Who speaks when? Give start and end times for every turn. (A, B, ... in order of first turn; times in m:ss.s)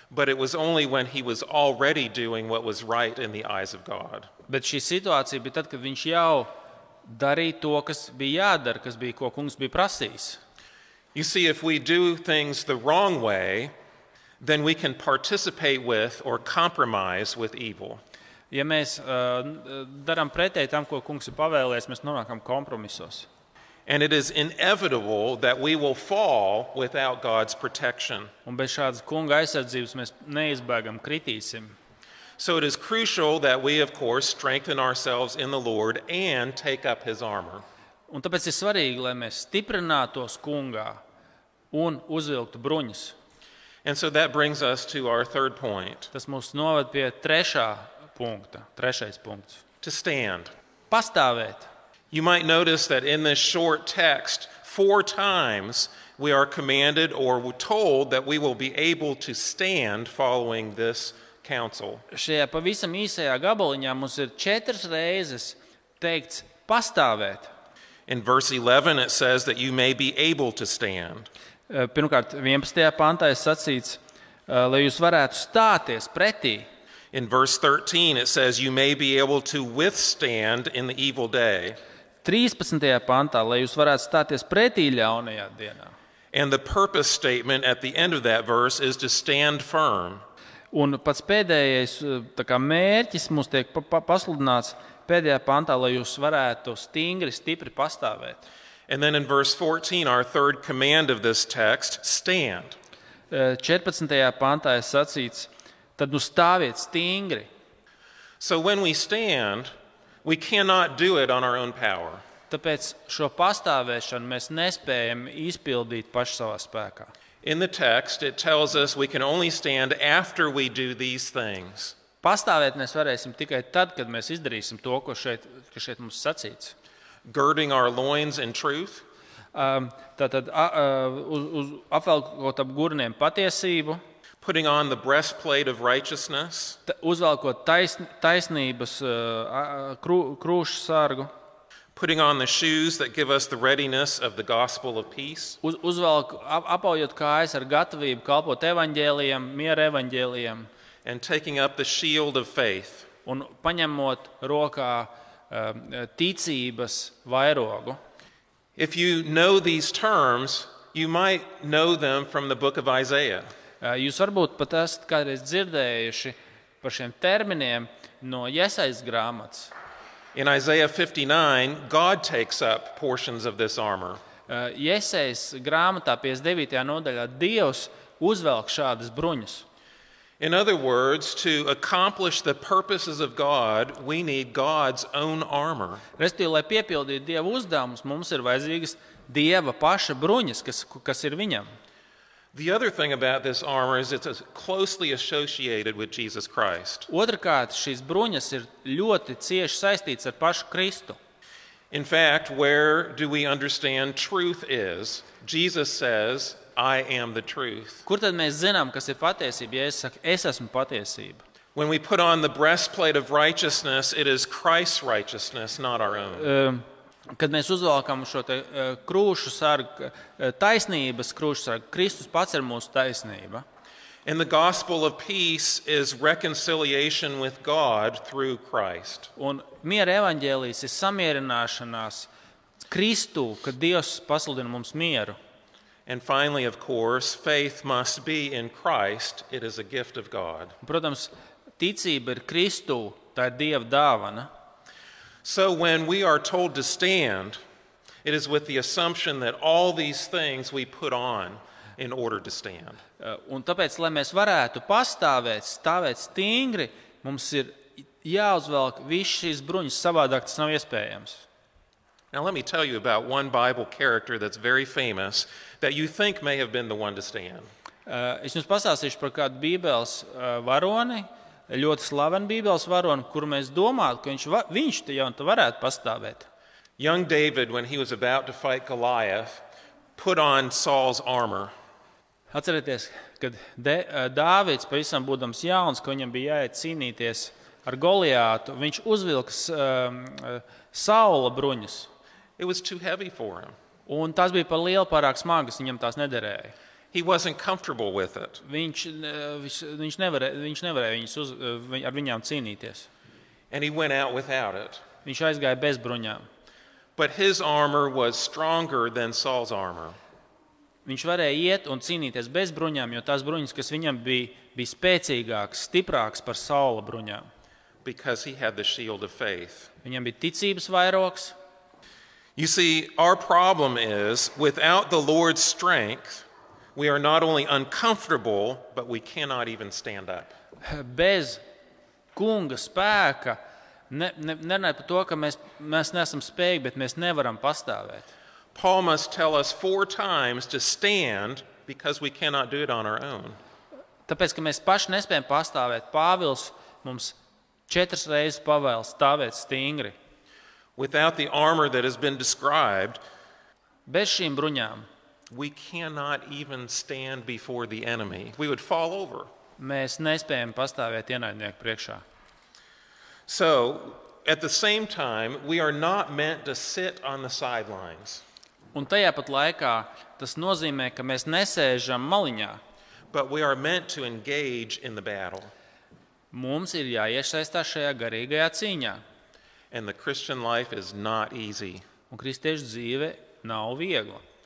0:00.1-0:04.3 A
0:04.5-0:06.5 B
0:07.0-0:10.4 B
0:11.1-0:13.7 A
0:14.4-0:18.0 A
0:18.5-0:23.3 B
0:23.8-0:28.3 A
0:28.4-0:31.8 B
0:32.4-0:37.6 A
0:38.1-0:41.0 B
0:41.7-0:43.1 B
0:43.8-0:46.1 A
0:46.1-0:49.6 B
0:49.8-0:50.5 A
0:50.9-0:51.7 B
0:52.1-1:02.0 A
1:02.1-1:07.5 B
1:08.1-1:11.3 A
1:11.7-1:16.7 B
1:17.1-1:21.8 A
1:22.2-1:25.9 B
1:26.3-1:30.2 A
1:30.7-1:38.4 B
1:38.9-1:42.8 A
1:43.3-1:47.5 B
1:48.4-1:49.7 A
1:50.2-1:52.2 A
1:52.5-1:57.1 B
1:57.4-2:02.0 A
2:02.2-2:06.7 B
2:07.2-2:09.0 A
2:09.5-2:14.0 B
2:14.4-2:16.8 A
2:16.8-2:21.3 B
2:21.9-2:25.6 A
2:25.6-2:30.7 B
2:31.0-2:33.1 A
2:33.2-2:38.0 B
2:38.8-2:43.5 A
2:43.8-2:49.7 B
2:50.3-2:54.2 A
2:54.5-2:59.6 B
3:00.4-3:06.0 A
3:06.2-3:11.7 B
3:12.5-3:17.1 A
3:17.1-3:21.2 B
3:21.9-3:28.0 A
3:28.0-3:31.4 B
3:31.8-3:36.5 A
3:36.4-3:36.8 B
3:37.4-3:43.6 B
3:44.2-3:49.3 A
3:49.4-3:52.3 B
3:52.8-3:55.4 B
3:56.1-4:00.8 A
4:00.8-4:04.5 B
4:05.4-4:07.6 A
4:08.2-4:13.0 A
4:13.2-4:21.4 B
4:22.3-4:27.7 A
4:28.1-4:36.5 B
4:37.0-4:39.6 A
4:40.2-4:41.7 A
4:42.5-4:52.1 B
4:52.6-4:53.7 A
4:54.1-4:56.7 B
4:57.1-4:58.6 A
4:58.6-5:03.1 B
5:03.7-5:05.0 A
5:05.2-5:06.4 B
5:07.2-5:10.2 A
5:11.0-5:17.4 B
5:18.0-5:19.9 A
5:20.0-5:21.5 B
5:22.6-5:30.5 A
5:30.8-5:31.6 B
5:32.3-5:38.3 B
5:38.8-5:43.6 A
5:44.3-5:47.4 B
5:47.9-5:50.1 B
5:51.0-5:53.2 A
5:54.1-5:55.1 B
5:55.5-5:59.5 A
5:59.8-6:02.2 B
6:03.5-6:08.4 A
6:08.9-6:12.8 B
6:13.3-6:15.7 A
6:16.5-6:19.2 B
6:19.9-6:22.0 A
6:22.3-6:24.4 B